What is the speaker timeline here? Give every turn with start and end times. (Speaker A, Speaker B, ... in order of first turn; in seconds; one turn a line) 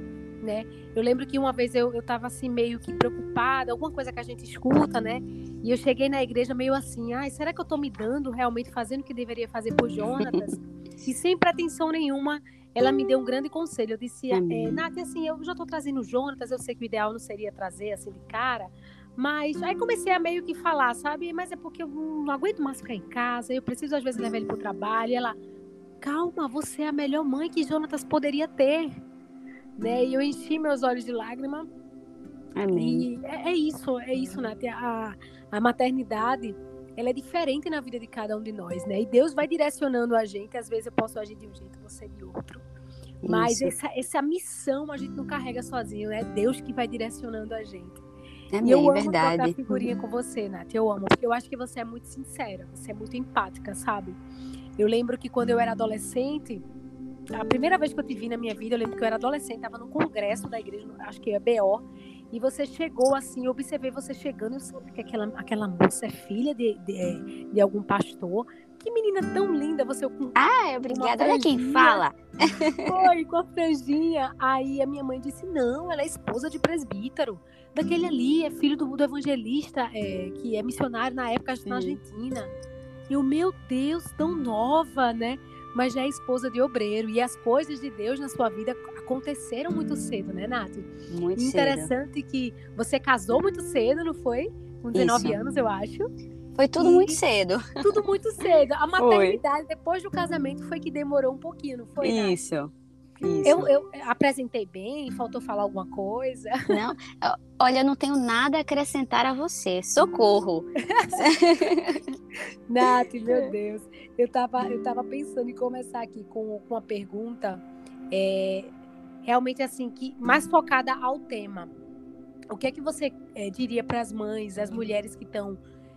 Speaker A: 0.4-25.4
Speaker B: 14.3-14.8
Speaker A: 26.0-29.0
Speaker A: 29.8-31.7
Speaker B: 32.6-33.1
Speaker A: 32.7-42.6
Speaker B: 43.2-43.8
Speaker A: 43.3-48.0
Speaker B: 48.5-49.8
Speaker A: 48.6-54.2
Speaker A: 54.8-56.6
Speaker A: 57.3-70.4
Speaker B: 70.4-73.0
Speaker A: 70.9-72.0
Speaker A: 72.8-82.5
Speaker B: 81.7-82.0
Speaker A: 83.1-96.1
Speaker B: 91.1-91.9
Speaker B: 94.9-95.4
Speaker B: 96.5-97.8
Speaker A: 96.8-97.2
Speaker A: 97.8-102.4
Speaker B: 99.0-99.4
Speaker B: 102.0-103.7
Speaker A: 103.4-106.7
Speaker B: 106.7-112.1
Speaker A: 110.9-111.3
Speaker A: 112.7-118.7
Speaker A: 119.3-121.7
Speaker A: 122.5-125.6